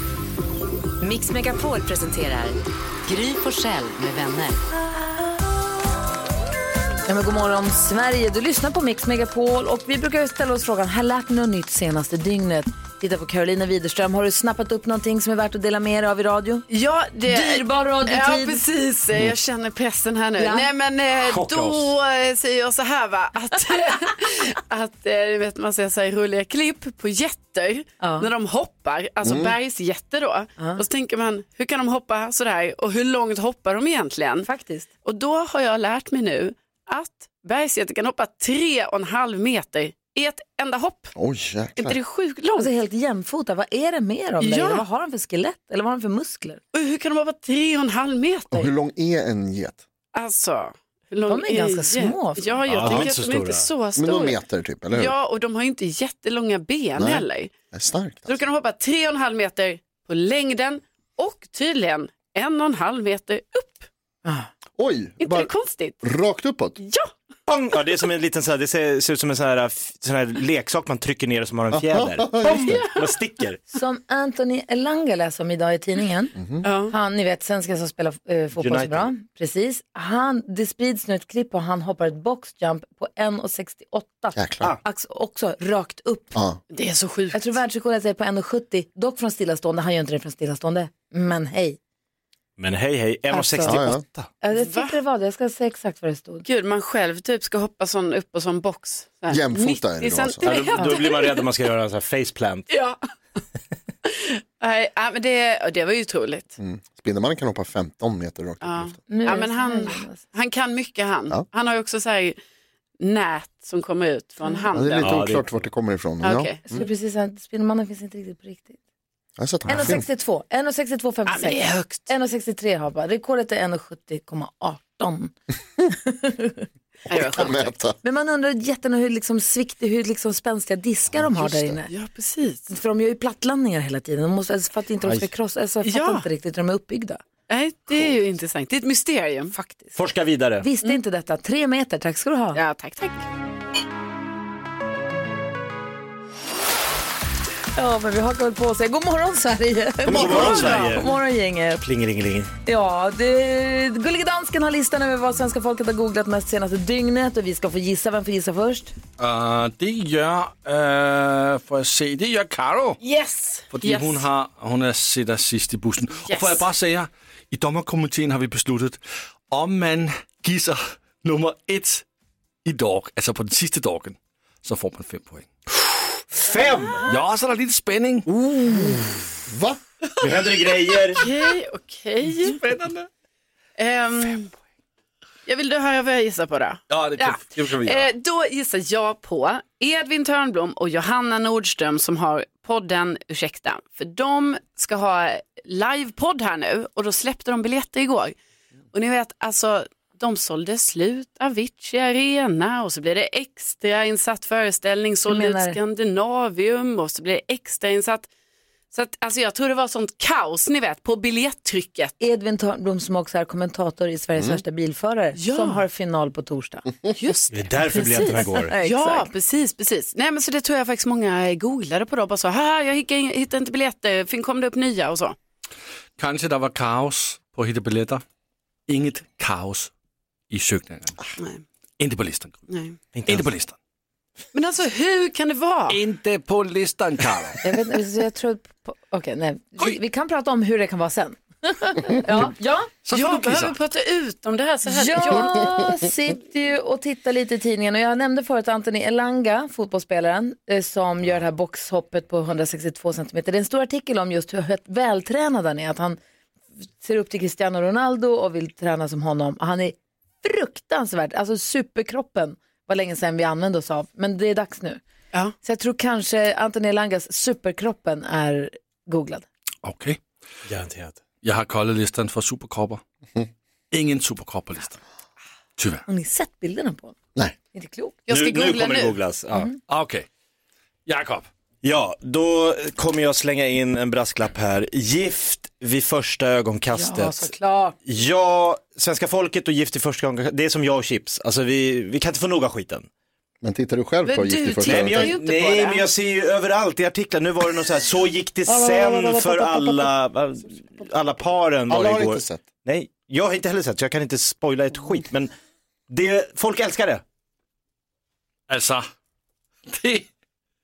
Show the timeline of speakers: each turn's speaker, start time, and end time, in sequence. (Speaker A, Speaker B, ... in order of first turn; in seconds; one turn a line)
Speaker A: 1.0-4.6
Speaker B: 7.1-16.6
Speaker C: 16.7-34.5
Speaker B: 17.3-18.6
Speaker B: 20.4-20.7
Speaker D: 21.2-21.9
Speaker B: 28.0-28.3
Speaker E: 29.2-29.6
Speaker B: 30.6-30.8
Speaker B: 34.4-34.9
Speaker C: 35.0-41.1
Speaker E: 41.1-42.0
Speaker C: 41.8-42.7
Speaker B: 42.6-46.6
Speaker C: 44.4-44.8
Speaker C: 46.7-48.7
Speaker E: 48.5-49.8
Speaker C: 50.1-54.4
Speaker B: 51.3-52.6
Speaker D: 52.7-53.7
Speaker E: 54.0-55.1
Speaker C: 54.9-57.5
Speaker E: 57.0-58.4
Speaker C: 58.3-63.9
Speaker E: 64.8-65.5
Speaker C: 65.2-66.0
Speaker E: 66.0-66.8
Speaker C: 66.8-67.1
Speaker D: 67.5-73.6
Speaker E: 71.7-72.8
Speaker C: 72.4-73.1
Speaker B: 73.7-76.3
Speaker E: 76.4-76.7
Speaker C: 76.6-76.9
Speaker B: 76.9-86.4
Speaker D: 78.6-79.1
Speaker E: 84.3-84.8
Speaker E: 86.3-86.6
Speaker C: 86.7-87.5
Speaker B: 87.3-91.8
Speaker D: 92.6-94.3
Speaker B: 93.3-93.8
Speaker E: 93.6-94.0
Speaker B: 94.4-96.5
Speaker C: 94.5-95.0
Speaker C: 96.5-101.5
Speaker E: 99.3-100.5
Speaker D: 100.4-102.7
Speaker C: 102.7-103.0
Speaker C: 104.1-106.5
Speaker E: 106.6-109.0
Speaker C: 108.6-112.4
Speaker B: 109.1-110.2
Speaker C: 113.0-115.2
Speaker E: 114.7-116.9
Speaker D: 115.0-115.5
Speaker C: 116.2-116.6
Speaker B: 116.7-118.8
Speaker E: 119.4-120.0
Speaker B: 119.7-125.3
Speaker C: 121.3-122.1
Speaker B: 125.9-126.7
Speaker E: 127.1-128.0
Speaker C: 127.1-127.7
Speaker B: 128.0-131.9
Speaker E: 131.1-131.7
Speaker C: 131.9-132.7
Speaker B: 132.7-137.2
Speaker C: 135.8-136.3
Speaker C: 137.5-139.5
Speaker B: 139.5-140.0
Speaker D: 140.0-140.7
Speaker B: 140.6-142.6
Speaker C: 142.6-143.2
Speaker B: 147.8-151.8
Speaker C: 150.0-151.1
Speaker D: 150.1-151.2
Speaker D: 151.8-152.5
Speaker B: 152.7-158.9
Speaker F: 159.2-163.0
Speaker C: 163.0-164.2
Speaker F: 163.7-172.1
Speaker C: 166.3-166.7
Speaker F: 172.7-175.5
Speaker D: 176.3-177.0
Speaker F: 177.0-178.3
Speaker D: 178.3-179.3
Speaker E: 179.5-179.8
Speaker D: 180.2-181.2
Speaker C: 181.2-182.6
Speaker F: 182.4-183.1
Speaker C: 183.8-184.5
Speaker C: 185.5-198.3
Speaker F: 186.9-188.1
Speaker C: 198.9-208.3
Speaker B: 205.3-205.8
Speaker C: 208.9-212.2
Speaker B: 212.2-216.9
Speaker E: 214.4-214.6
Speaker C: 215.4-215.8
Speaker C: 217.2-225.4
Speaker D: 217.5-218.7
Speaker B: 217.9-219.3
Speaker F: 226.2-228.2
Speaker F: 228.9-229.9
Speaker F: 230.5-231.2
Speaker F: 232.0-232.6
Speaker C: 232.7-233.0
Speaker D: 233.2-233.5
Speaker F: 233.3-233.8
Speaker C: 234.5-236.0
Speaker F: 235.9-237.6
Speaker B: 237.6-242.9
Speaker F: 243.1-243.8
Speaker C: 243.1-245.7
Speaker B: 244.9-256.2
Speaker B: 257.0-265.0
Speaker B: 265.6-269.5
Speaker F: 269.8-270.2
Speaker D: 270.7-271.2
Speaker F: 271.4-273.0
Speaker F: 273.9-275.0
Speaker F: 275.8-276.0
Speaker B: 276.1-277.2
Speaker B: 277.7-278.2
Speaker C: 278.3-279.2
Speaker D: 278.3-279.7
Speaker F: 279.9-280.3
Speaker F: 281.1-281.5
Speaker D: 281.8-287.5
Speaker B: 286.9-288.0
Speaker D: 288.1-293.1
Speaker E: 293.6-295.4
Speaker C: 294.2-296.1
Speaker D: 294.8-305.5
Speaker B: 298.7-300.1
Speaker E: 301.9-302.6
Speaker D: 306.1-307.2
Speaker F: 308.7-309.1
Speaker F: 309.9-310.3